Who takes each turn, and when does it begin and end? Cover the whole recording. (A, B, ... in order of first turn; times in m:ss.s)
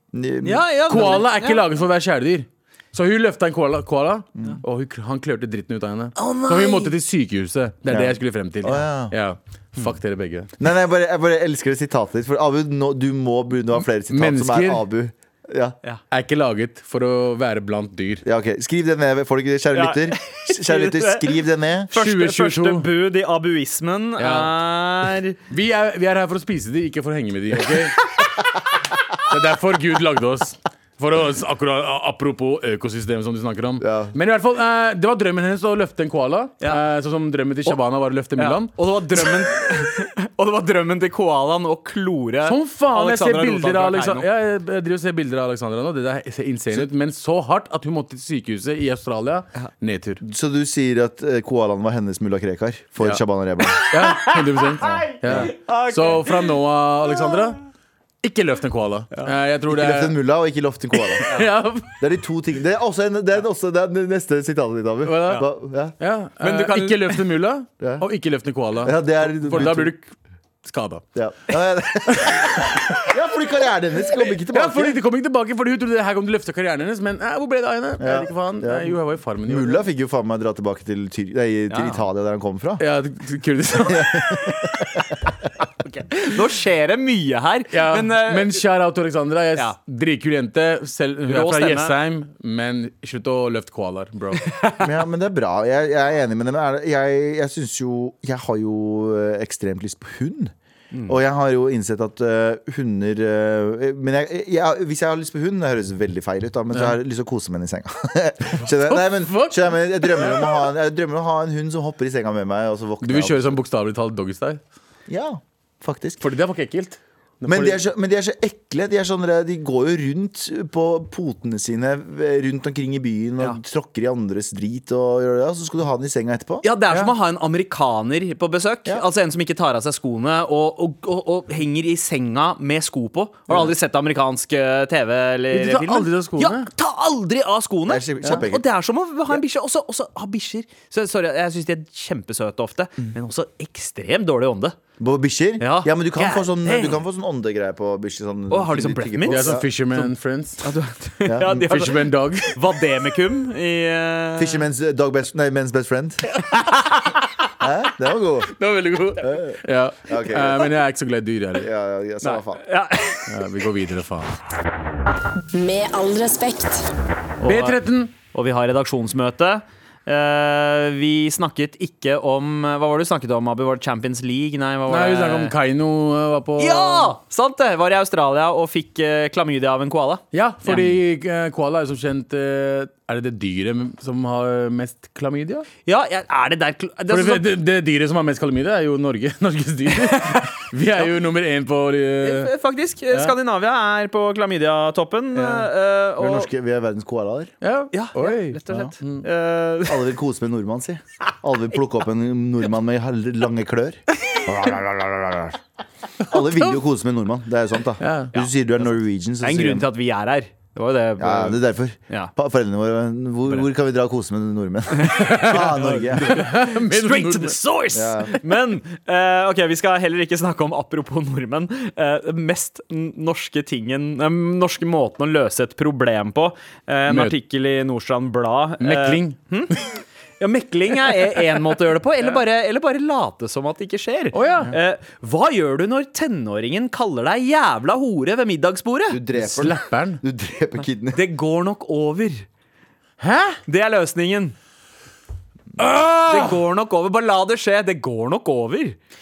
0:00.1-0:01.2 A
0:00.4-0:01.6 B
0:00.9-0:10.5 C
0:06.2-0:06.9 B
0:07.9-0:09.2 A
0:10.6-0:15.8 A
0:14.1-0:14.8 C
0:16.1-0:18.2 C
0:18.2-0:21.9 A
0:19.7-0:21.3 B
0:21.9-0:25.4 B
0:21.9-0:22.9 C
0:24.2-0:24.5 C
0:25.5-0:28.3 C
0:29.2-0:39.5 C
0:33.8-0:34.2 A
0:38.4-0:44.3 B
0:42.4-0:50.2 C
0:50.2-0:53.9 A
0:53.8-0:57.6 C
0:55.0-0:56.5 B
0:58.2-1:00.2 C
0:59.7-1:01.3 A
1:01.3-1:02.0 C
1:02.0-1:06.0 A
1:05.0-1:05.5 C
1:06.0-1:10.1 C
1:06.4-1:07.2 B
1:08.8-1:09.9 A
1:10.6-1:11.0 C
1:11.2-1:15.0 A
1:12.1-1:13.0 C
1:14.1-1:19.8 C
1:18.0-1:22.8 A
1:21.7-1:22.0 B
1:22.8-1:25.1 C
1:23.9-1:24.8 A
1:25.9-1:28.6 B
1:27.7-1:34.6 C
1:31.3-1:31.9 B
1:34.4-1:34.8 B
1:34.8-1:40.5 A
1:41.1-1:53.6 A
1:48.7-1:50.7 C
1:53.0-1:54.6 C
1:55.1-1:56.2 A
1:56.2-1:57.8 C
1:57.5-2:06.6 A
2:06.6-2:24.8 B
2:15.5-2:16.7 C
2:17.9-2:18.7 A
2:25.0-2:29.7 A
2:25.6-2:27.0 B
2:28.5-2:30.1 B
2:29.3-2:30.6 C
2:30.6-2:34.7 B
2:31.3-2:31.7 A
2:31.5-2:32.6 C
2:34.4-2:36.2 A
2:37.6-2:38.5 A
2:38.6-2:41.7 C
2:39.2-2:40.7 A
2:41.6-2:42.6 A
2:42.2-2:43.3 B
2:43.3-2:44.3 C
2:47.4-2:55.5 B
2:47.4-2:48.1 C
2:54.9-2:57.1 C
2:56.6-3:01.0 B
3:00.3-3:05.7 C
3:05.9-3:07.5 B
3:07.1-3:12.5 C
3:10.0-3:11.0 B
3:12.2-3:16.5 B
3:15.4-3:15.7 C
3:16.2-3:17.5 A
3:17.6-3:19.3 C
3:17.9-3:20.0 B
3:19.9-3:25.6 A
3:26.3-3:29.9 A
3:26.3-3:26.8 C
3:28.0-3:28.3 C
3:29.4-3:32.3 B
3:31.2-3:36.4 A
3:35.0-3:49.8 B
3:35.2-3:37.6 C
3:37.9-3:38.3 A
3:47.1-3:47.3 C
3:48.8-3:49.4 C
3:50.4-3:59.2 B
3:54.3-3:54.7 C
3:59.1-4:01.2 A
3:59.3-4:00.2 C
4:01.1-4:02.4 B
4:03.2-4:03.6 C
4:03.7-4:04.6 B
4:05.8-4:06.6 C
4:06.3-4:09.0 B